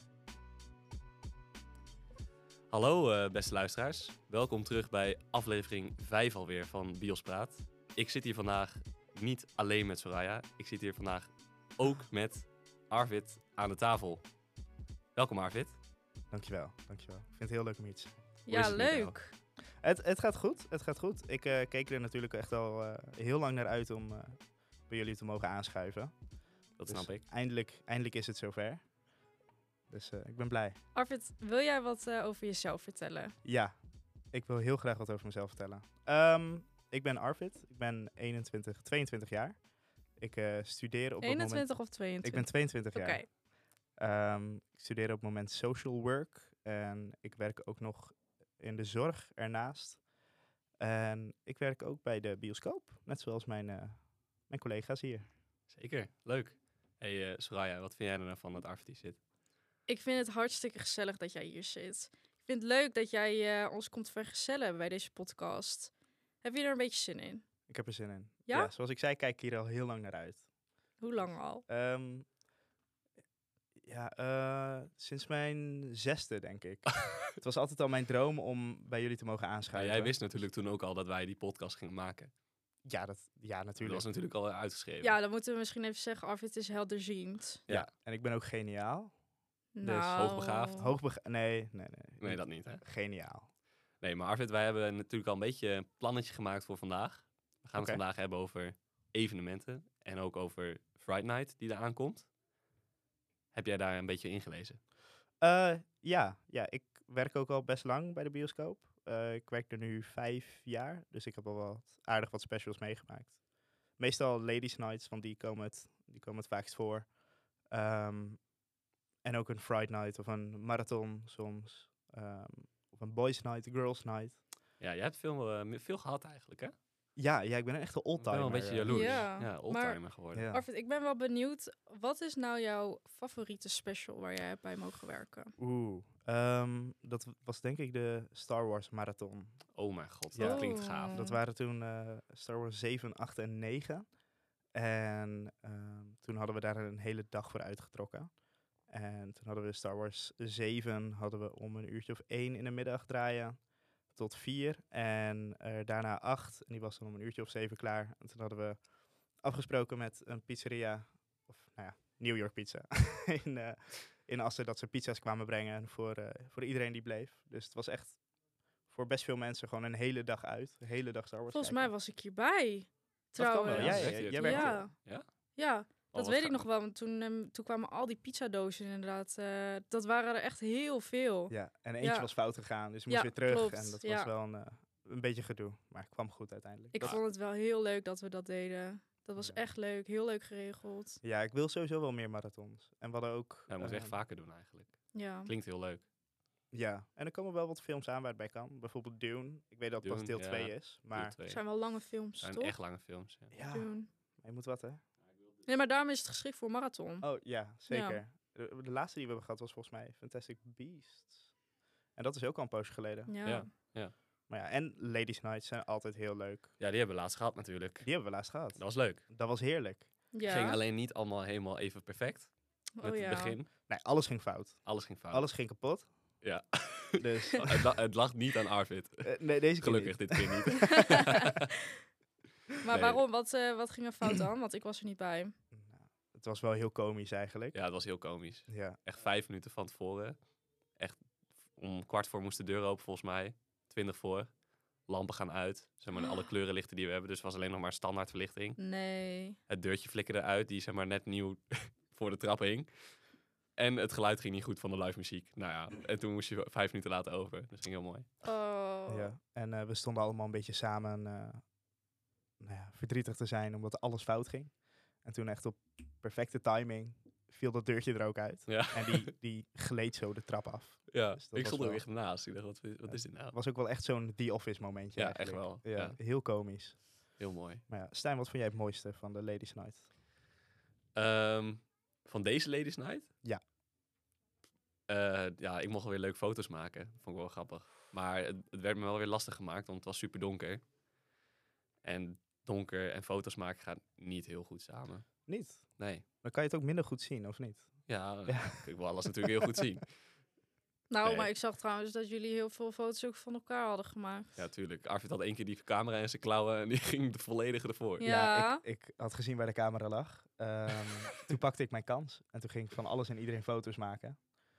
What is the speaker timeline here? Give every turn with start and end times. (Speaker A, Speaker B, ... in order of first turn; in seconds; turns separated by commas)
Speaker A: 2.7-14.2, Speaker A: 15.2-15.8, Speaker B: 16.3-18.2, Speaker C: 18.4-19.3, Speaker A: 18.5-19.1, Speaker B: 19.8-26.1, Speaker A: 26.8-27.2, Speaker B: 26.9-28.8, Speaker B: 29.9-30.8, Speaker C: 30.9-33.3, Speaker B: 33.4-33.8, Speaker B: 34.3-39.6, Speaker B: 40.2-43.3, Speaker C: 41.2-43.3, Speaker B: 44.0-50.0, Speaker B: 50.8-55.3, Speaker A: 55.7-59.2, Speaker C: 59.9-65.9, Speaker C: 66.4-67.4, Speaker B: 67.7-70.5, Speaker C: 71.0-71.6, Speaker B: 71.2-72.3, Speaker B: 73.8-80.2, Speaker A: 79.7-82.3, Speaker B: 82.8-84.1, Speaker A: 83.8-85.2, Speaker C: 85.0-87.6, Speaker B: 87.7-89.1, Speaker C: 89.8-90.9, Speaker A: 89.8-90.9, Speaker B: 90.8-93.5, Speaker A: 92.2-92.8, Speaker A: 94.0-102.3, Speaker B: 97.8-98.0, Speaker A: 103.5-104.8, Speaker B: 105.4-113.4, Speaker B: 114.0-117.1, Speaker B: 117.7-118.4, Speaker B: 119.2-124.4, Speaker A: 124.8-126.7, Speaker B: 127.2-129.3, Speaker A: 128.2-130.5, Speaker C: 128.9-135.5, Speaker B: 130.3-130.6, Speaker B: 135.6-139.7, Speaker A: 139.7-141.2, Speaker B: 140.3-144.1, Speaker C: 140.4-141.4, Speaker B: 144.7-148.3, Speaker B: 148.9-158.9, Speaker B: 159.4-168.2, Speaker B: 168.9-171.9, Speaker C: 171.5-174.9, Speaker B: 173.4-174.9, Speaker A: 173.7-175.2, Speaker C: 175.6-182.3, Speaker A: 176.1-176.7, Speaker B: 181.5-187.2, Speaker C: 183.1-184.3, Speaker C: 186.9-191.2, Speaker B: 191.2-194.2, Speaker A: 193.7-196.0, Speaker C: 195.1-195.5, Speaker B: 196.7-201.4, Speaker A: 200.0-201.6, Speaker C: 201.5-202.8, Speaker A: 202.4-203.5, Speaker B: 203.5-205.0, Speaker C: 203.7-204.1, Speaker C: 205.6-207.3, Speaker B: 207.2-211.5, Speaker C: 207.9-208.2, Speaker B: 212.2-213.3, Speaker C: 213.3-213.7, Speaker A: 213.4-214.1, Speaker B: 214.5-216.7, Speaker A: 216.8-219.2, Speaker B: 218.0-220.1, Speaker C: 220.3-220.8, Speaker A: 220.4-223.7, Speaker C: 223.0-223.6, Speaker B: 223.9-226.1, Speaker A: 224.8-225.5, Speaker A: 226.4-231.7, Speaker B: 227.2-227.9, Speaker B: 229.2-230.8, Speaker C: 230.8-231.9, Speaker C: 232.8-235.5, Speaker A: 232.9-233.2, Speaker B: 235.7-237.8, Speaker A: 237.7-240.4, Speaker B: 238.7-239.0, Speaker A: 241.0-244.5, Speaker A: 245.1-248.8, Speaker C: 246.2-246.5, Speaker C: 248.8-249.6, Speaker A: 249.7-253.2, Speaker A: 253.8-258.3, Speaker C: 258.4-259.3, Speaker B: 259.1-261.6, Speaker B: 262.6-272.0, Speaker A: 268.7-269.3, Speaker A: 271.1-273.6, Speaker B: 273.1-280.1, Speaker A: 275.2-276.2, Speaker A: 277.4-277.8, Speaker A: 281.1-283.3, Speaker A: 285.1-290.8, Speaker A: 292.0-295.3, Speaker B: 295.5-299.7, Speaker A: 296.0-296.2, Speaker A: 298.1-300.1, Speaker C: 301.1-304.6, Speaker A: 301.2-301.5, Speaker A: 304.6-308.2, Speaker C: 308.2-308.8, Speaker B: 308.2-314.5